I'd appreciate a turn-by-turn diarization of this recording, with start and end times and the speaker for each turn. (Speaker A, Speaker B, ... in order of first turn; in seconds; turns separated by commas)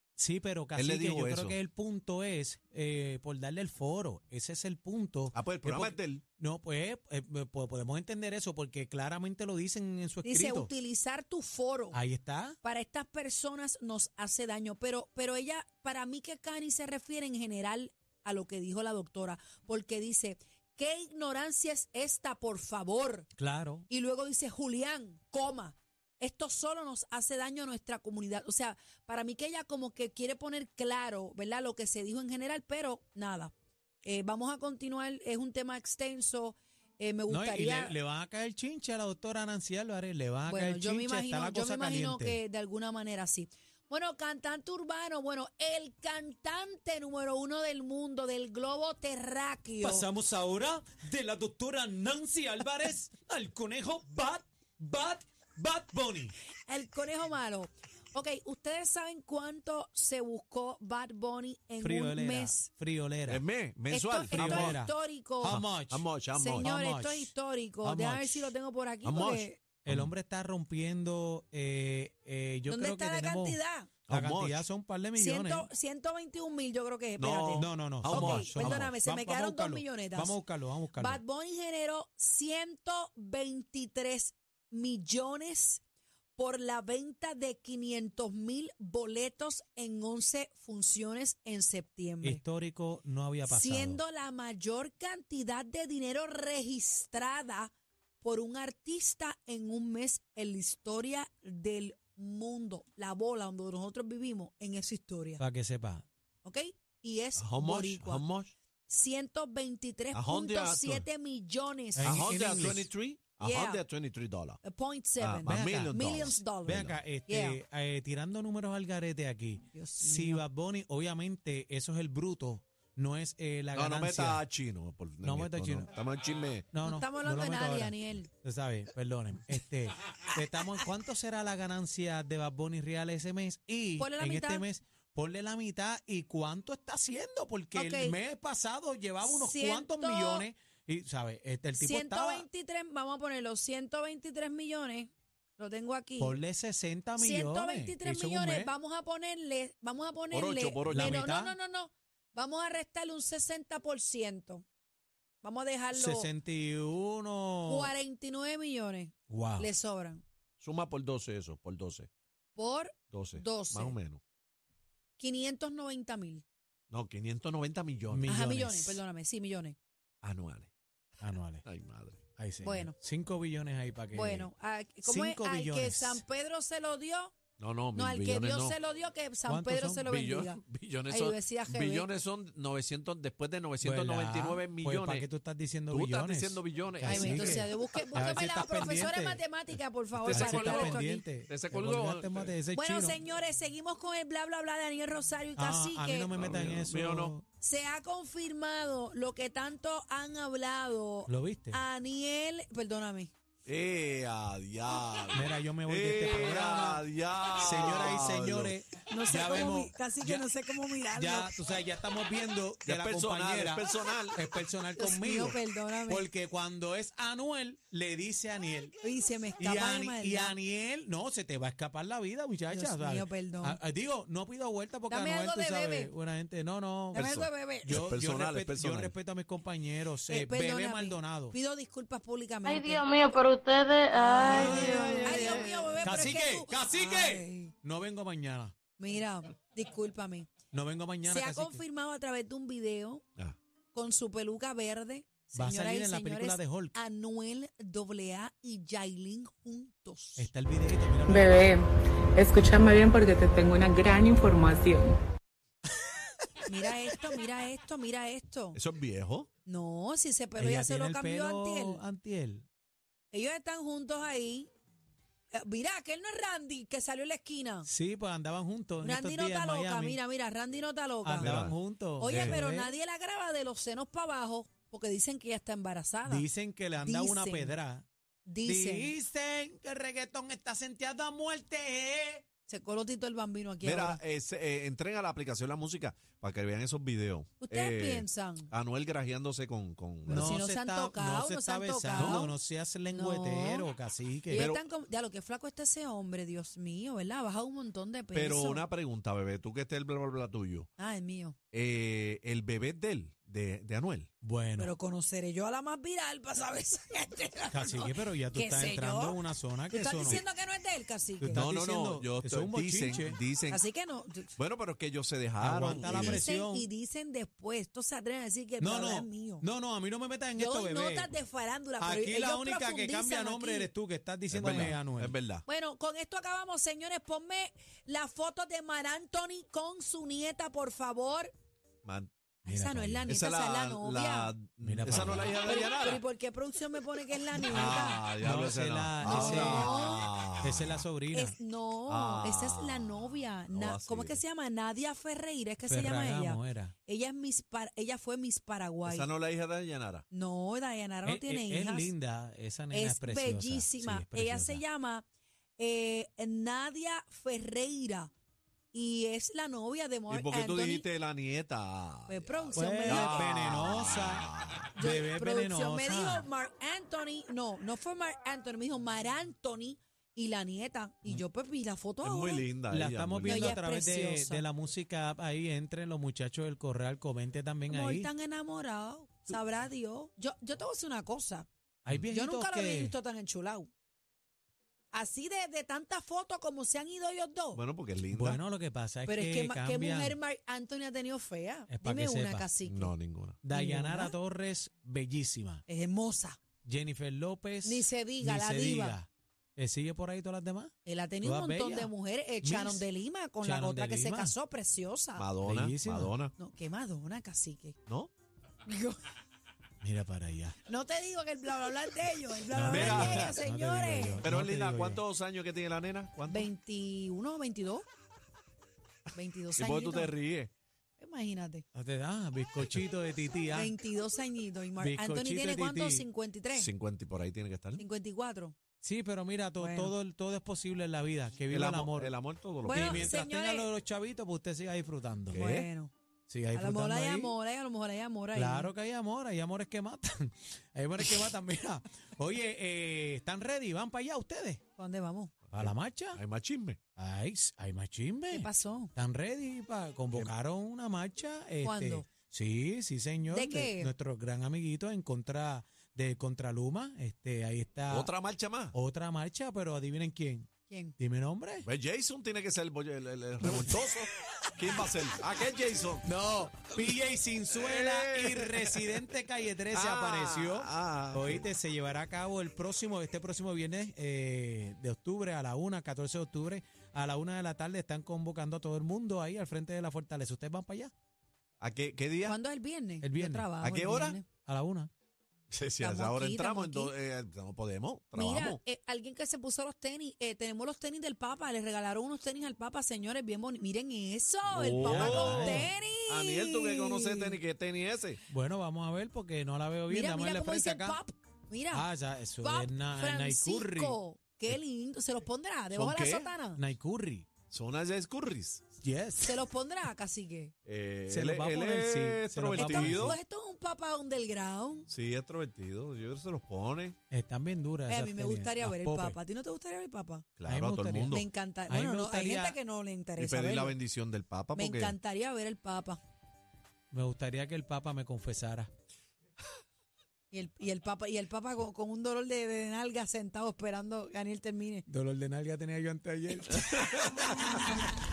Speaker A: 0.2-10.7, Speaker B: 0.8-1.6, Speaker B: 5.3-6.2, Speaker C: 10.2-12.0, Speaker A: 11.9-12.6, Speaker C: 12.6-23.3, Speaker A: 23.4-23.8, Speaker C: 23.9-33.5, Speaker C: 34.0-37.9, Speaker A: 37.3-42.4, Speaker C: 40.5-50.1, Speaker A: 49.8-56.3, Speaker C: 56.7-62.7, Speaker A: 61.8-63.4, Speaker B: 63.3-64.8, Speaker C: 63.9-65.6, Speaker A: 64.3-66.0, Speaker B: 65.4-66.8, Speaker C: 66.3-69.6, Speaker A: 66.6-68.5, Speaker B: 69.0-70.1, Speaker A: 69.8-75.7, Speaker C: 72.7-73.9, Speaker B: 74.1-74.7, Speaker C: 75.2-80.4, Speaker B: 77.2-78.9, Speaker A: 77.6-81.2, Speaker C: 81.0-85.8, Speaker C: 86.4-92.4, Speaker A: 92.2-94.0, Speaker C: 93.5-105.4, Speaker A: 105.4-106.0, Speaker C: 106.4-108.2, Speaker B: 107.4-108.5, Speaker C: 108.9-112.7, Speaker B: 110.1-111.1, Speaker A: 112.0-112.9, Speaker B: 112.0-114.6, Speaker C: 113.4-113.8, Speaker C: 114.6-117.6, Speaker B: 115.2-117.0, Speaker A: 115.5-116.1, Speaker A: 116.7-124.4, Speaker C: 119.7-120.4, Speaker B: 123.7-126.7, Speaker A: 125.2-125.9, Speaker A: 126.7-142.5, Speaker C: 126.8-128.3, Speaker C: 134.0-134.7, Speaker C: 137.7-138.2, Speaker C: 139.2-140.5, Speaker C: 141.8-146.4, Speaker A: 146.2-148.7, Speaker C: 147.2-154.7, Speaker B: 150.3-151.2, Speaker A: 150.9-151.6, Speaker C: 155.4-156.3, Speaker A: 155.9-157.9, Speaker C: 157.7-160.2, Speaker A: 159.3-159.7, Speaker B: 160.6-162.1, Speaker C: 162.6-163.9, Speaker B: 163.1-164.2, Speaker C: 165.2-166.4, Speaker B: 166.9-168.4, Speaker A: 168.1-169.0, Speaker C: 168.2-169.8, Speaker B: 170.2-170.7, Speaker A: 171.2-171.7, Speaker B: 171.7-172.2, Speaker A: 172.3-174.5, Speaker C: 172.6-172.9, Speaker C: 174.1-177.3, Speaker A: 175.1-176.2, Speaker B: 177.6-178.8, Speaker C: 177.9-182.1, Speaker A: 179.5-180.1, Speaker B: 179.9-185.3, Speaker A: 183.8-189.4, Speaker B: 185.9-188.5, Speaker C: 187.1-191.3, Speaker A: 190.2-193.2, Speaker B: 190.3-192.6, Speaker C: 192.7-196.3, Speaker A: 195.6-197.4, Speaker B: 196.3-197.3, Speaker C: 197.6-203.3, Speaker A: 201.3-201.8, Speaker B: 203.7-208.8, Speaker A: 205.3-210.5, Speaker C: 209.1-211.6, Speaker A: 211.1-213.8, Speaker B: 212.8-214.4, Speaker A: 214.3-218.9, Speaker C: 215.0-216.3, Speaker C: 219.0-220.6, Speaker A: 219.6-227.3, Speaker C: 222.7-223.8, Speaker C: 225.1-226.1, Speaker C: 227.1-228.1, Speaker B: 227.2-229.1, Speaker A: 227.8-231.6, Speaker C: 230.3-233.1, Speaker D: 232.7-234.6, Speaker C: 234.2-237.7, Speaker A: 234.5-235.3, Speaker B: 234.5-236.2, Speaker E: 234.6-235.2, Speaker A: 236.0-238.7, Speaker C: 239.0-240.5, Speaker A: 240.7-241.8, Speaker C: 241.2-243.2, Speaker C: 243.9-250.5, Speaker A: 245.6-246.9, Speaker A: 250.4-251.7, Speaker E: 251.3-255.2, Speaker C: 256.7-258.8, Speaker B: 258.7-259.5, Speaker C: 259.7-262.0, Speaker A: 260.6-262.7, Speaker C: 263.3-264.7, Speaker C: 265.5-267.9, Speaker A: 267.9-270.2, Speaker C: 269.0-276.5, Speaker A: 271.2-272.9, Speaker B: 271.4-271.8, Speaker B: 272.3-272.6, Speaker A: 276.2-278.1, Speaker C: 277.0-277.7, Speaker C: 278.5-279.1, Speaker A: 278.6-282.5, Speaker C: 282.7-284.2, Speaker B: 283.8-290.6, Speaker C: 287.6-288.7, Speaker A: 290.3-294.7, Speaker C: 290.3-292.6, Speaker B: 292.1-292.4, Speaker C: 293.1-293.9, Speaker C: 294.5-298.9, Speaker B: 294.5-294.8, Speaker B: 298.3-300.9, Speaker C: 301.0-301.6, Speaker B: 301.7-304.3, Speaker A: 304.4-304.9, Speaker C: 304.8-311.7, Speaker A: 307.7-310.4, Speaker A: 311.4-313.4, Speaker B: 311.5-313.8, Speaker C: 313.7-314.5, Speaker B: 314.6-316.5, Speaker A: 315.6-316.9, Speaker C: 315.9-319.7, Speaker A: 318.8-321.4, Speaker C: 320.6-323.9, Speaker A: 322.0-325.3, Speaker B: 324.5-325.7, Speaker C: 324.6-324.9, Speaker C: 325.7-331.5, Speaker B: 332.0-332.3, Speaker C: 332.6-334.5, Speaker A: 332.7-333.3, Speaker B: 333.2-336.2, Speaker A: 334.8-335.6, Speaker C: 335.3-338.2, Speaker B: 337.7-341.0, Speaker A: 337.7-341.6, Speaker C: 339.2-340.3, Speaker C: 341.3-349.3, Speaker B: 342.1-344.4, Speaker A: 345.9-346.9, Speaker B: 349.1-350.2, Speaker C: 350.3-352.1, Speaker A: 351.2-354.8, Speaker C: 352.9-355.3, Speaker C: 355.8-358.3, Speaker C: 358.9-361.1, Speaker B: 360.3-364.9, Speaker C: 362.3-363.7, Speaker A: 362.7-366.5, Speaker C: 365.0-372.7, Speaker B: 372.2-373.7, Speaker A: 372.9-378.3, Speaker C: 373.4-374.7, Speaker C: 377.9-381.7, Speaker A: 382.1-383.2, Speaker C: 382.3-383.9, Speaker C: 385.1-387.8, Speaker B: 387.7-388.6, Speaker A: 388.3-390.4, Speaker C: 389.3-393.1, Speaker A: 391.9-392.7, Speaker B: 392.8-393.6, Speaker A: 393.6-395.8, Speaker C: 393.7-394.4, Speaker C: 395.9-396.6, Speaker A: 396.9-402.1, Speaker C: 397.8-399.2, Speaker C: 401.1-405.5, Speaker A: 402.6-403.1, Speaker A: 403.6-404.5, Speaker B: 405.4-406.5, Speaker A: 405.6-406.3, Speaker C: 406.6-408.0, Speaker C: 408.9-409.2, Speaker A: 410.0-410.8, Speaker C: 410.9-414.5, Speaker A: 412.7-415.2, Speaker B: 412.8-413.6, Speaker B: 414.4-416.7, Speaker C: 416.5-418.1, Speaker C: 419.3-420.3, Speaker B: 419.8-420.7, Speaker C: 421.2-421.9, Speaker A: 421.9-423.9, Speaker C: 423.7-426.9, Speaker A: 425.0-426.2, Speaker B: 426.7-428.0, Speaker C: 428.0-428.8, Speaker A: 429.0-432.3, Speaker C: 429.8-430.1, Speaker B: 431.7-433.4, Speaker C: 432.9-433.9, Speaker A: 432.9-435.6, Speaker B: 435.5-435.9, Speaker C: 435.5-436.1, Speaker A: 436.5-437.6, Speaker C: 436.7-438.9, Speaker A: 438.6-444.8, Speaker C: 445.0-445.5, Speaker B: 445.7-447.0, Speaker A: 445.7-446.4, Speaker A: 447.2-458.3, Speaker C: 448.5-449.1, Speaker C: 451.8-452.3, Speaker C: 453.5-454.1, Speaker B: 458.1-458.9, Speaker A: 458.9-461.9, Speaker C: 460.9-461.2, Speaker B: 461.8-466.3, Speaker A: 466.2-481.1, Speaker B: 466.9-467.1, Speaker B: 467.7-469.2, Speaker B: 469.9-471.6, Speaker B: 481.8-482.6, Speaker C: 482.4-484.4, Speaker A: 483.2-483.7, Speaker B: 483.8-484.4, Speaker A: 484.5-485.1, Speaker B: 485.7-488.8, Speaker C: 486.0-487.1, Speaker C: 488.4-496.8, Speaker B: 494.7-498.4, Speaker A: 495.0-495.9, Speaker A: 497.0-497.6, Speaker A: 498.5-501.2, Speaker C: 500.1-502.1, Speaker A: 501.9-504.2, Speaker C: 502.6-506.8, Speaker B: 505.9-506.6, Speaker A: 506.8-507.5, Speaker B: 507.7-508.9, Speaker A: 509.0-509.6, Speaker C: 509.4-510.7, Speaker B: 510.9-513.4, Speaker A: 511.3-513.4, Speaker C: 512.7-515.1, Speaker B: 515.1-517.2, Speaker A: 517.3-519.4, Speaker C: 518.1-520.5, Speaker B: 520.6-521.5, Speaker A: 520.7-522.8, Speaker C: 521.3-524.0, Speaker B: 523.4-525.2, Speaker C: 524.7-526.2, Speaker A: 527.1-528.9, Speaker C: 530.5-535.1, Speaker A: 535.1-537.9, Speaker B: 537.1-537.4